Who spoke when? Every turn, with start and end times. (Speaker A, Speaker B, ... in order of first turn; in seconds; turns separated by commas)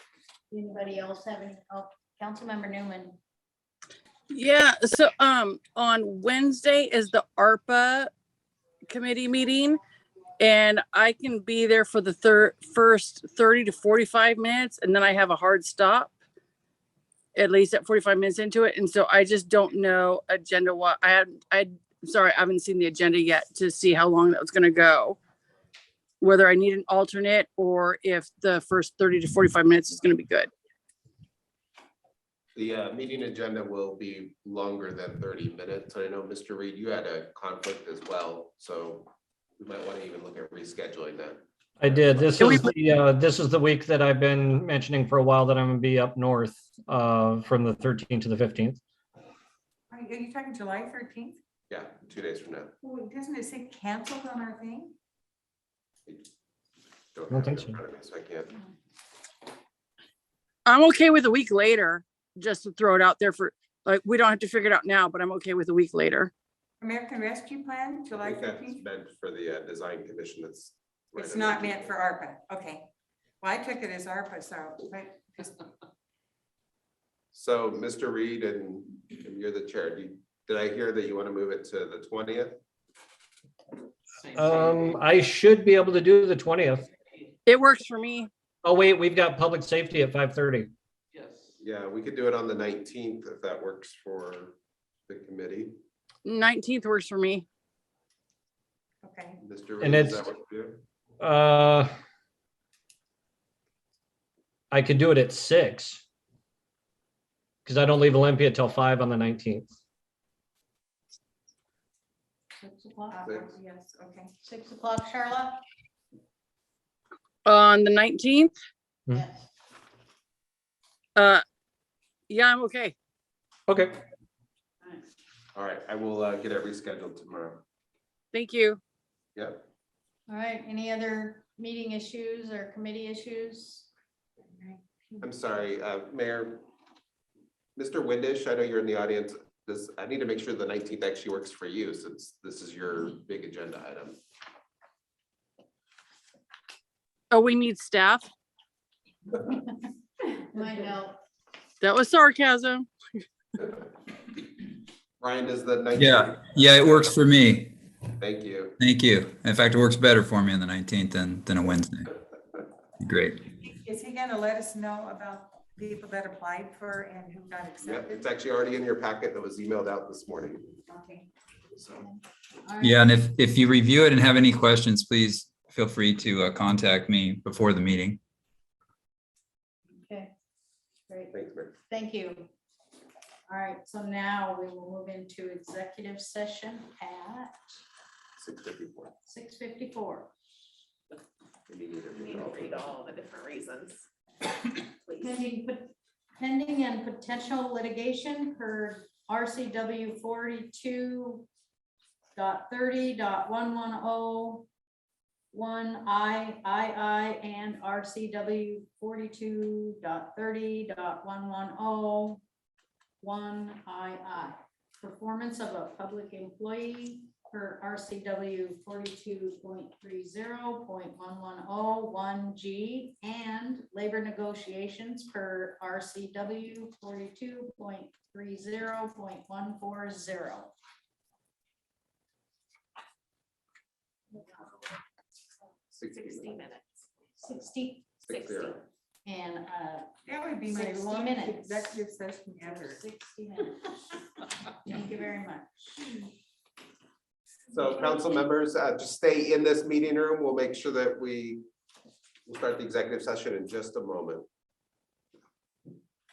Speaker A: 0.5-3.2, Speaker B: 4.3-8.1, Speaker B: 8.9-9.8, Speaker B: 10.4-16.1, Speaker B: 17.4-25.2, Speaker B: 26.2-30.5, Speaker C: 32.5-42.3, Speaker D: 41.8-48.8, Speaker E: 49.9-51.4, Speaker C: 51.7-52.7, Speaker E: 52.8-55.0, Speaker C: 57.1-58.6, Speaker D: 57.3-57.8, Speaker B: 60.6-66.3, Speaker E: 66.8-68.8, Speaker C: 68.2-71.9, Speaker E: 71.2-72.9, Speaker E: 73.4-75.5, Speaker C: 77.3-82.6, Speaker D: 84.3-86.9, Speaker B: 87.5-88.3, Speaker D: 88.6-90.7, Speaker C: 91.6-94.6, Speaker C: 95.1-95.8, Speaker B: 96.2-97.5, Speaker E: 99.0-99.4, Speaker C: 99.4-100.8, Speaker D: 99.8-100.2, Speaker D: 101.2-101.9, Speaker D: 104.7-106.0, Speaker D: 107.7-109.7, Speaker A: 112.5-113.2, Speaker E: 113.1-114.3, Speaker A: 114.4-115.6, Speaker B: 117.5-118.5, Speaker A: 119.1-119.5, Speaker B: 121.2-121.4, Speaker B: 122.3-123.0, Speaker D: 123.7-123.9, Speaker C: 125.5-127.6, Speaker B: 128.3-128.8, Speaker C: 129.3-129.7, Speaker A: 130.3-133.9, Speaker E: 134.5-135.3, Speaker C: 135.2-136.6, Speaker C: 137.8-144.2, Speaker B: 147.3-148.3, Speaker A: 150.3-151.2, Speaker B: 151.8-153.2, Speaker C: 155.2-157.2, Speaker F: 156.0-157.7, Speaker C: 158.2-158.8, Speaker F: 158.8-162.1, Speaker F: 163.0-163.4, Speaker E: 163.6-168.3, Speaker C: 167.8-170.8, Speaker E: 170.9-171.3, Speaker A: 172.0-173.1, Speaker F: 172.8-178.2, Speaker A: 180.0-180.3, Speaker A: 181.1-181.3, Speaker C: 181.3-181.8, Speaker A: 181.9-182.5, Speaker A: 183.5-187.8, Speaker C: 188.4-189.2, Speaker A: 189.3-190.3, Speaker C: 191.7-193.0, Speaker G: 192.2-194.0, Speaker A: 195.2-201.5, Speaker A: 202.3-204.7, Speaker A: 205.5-212.4, Speaker A: 213.2-230.7, Speaker C: 235.9-236.6, Speaker G: 236.1-236.8, Speaker A: 237.4-238.1, Speaker C: 238.2-238.9, Speaker G: 238.3-238.8, Speaker A: 239.2-240.1, Speaker E: 240.3-243.0, Speaker A: 240.6-242.0, Speaker A: 242.6-244.0, Speaker A: 244.7-246.0, Speaker C: 247.7-251.7, Speaker C: 252.5-254.5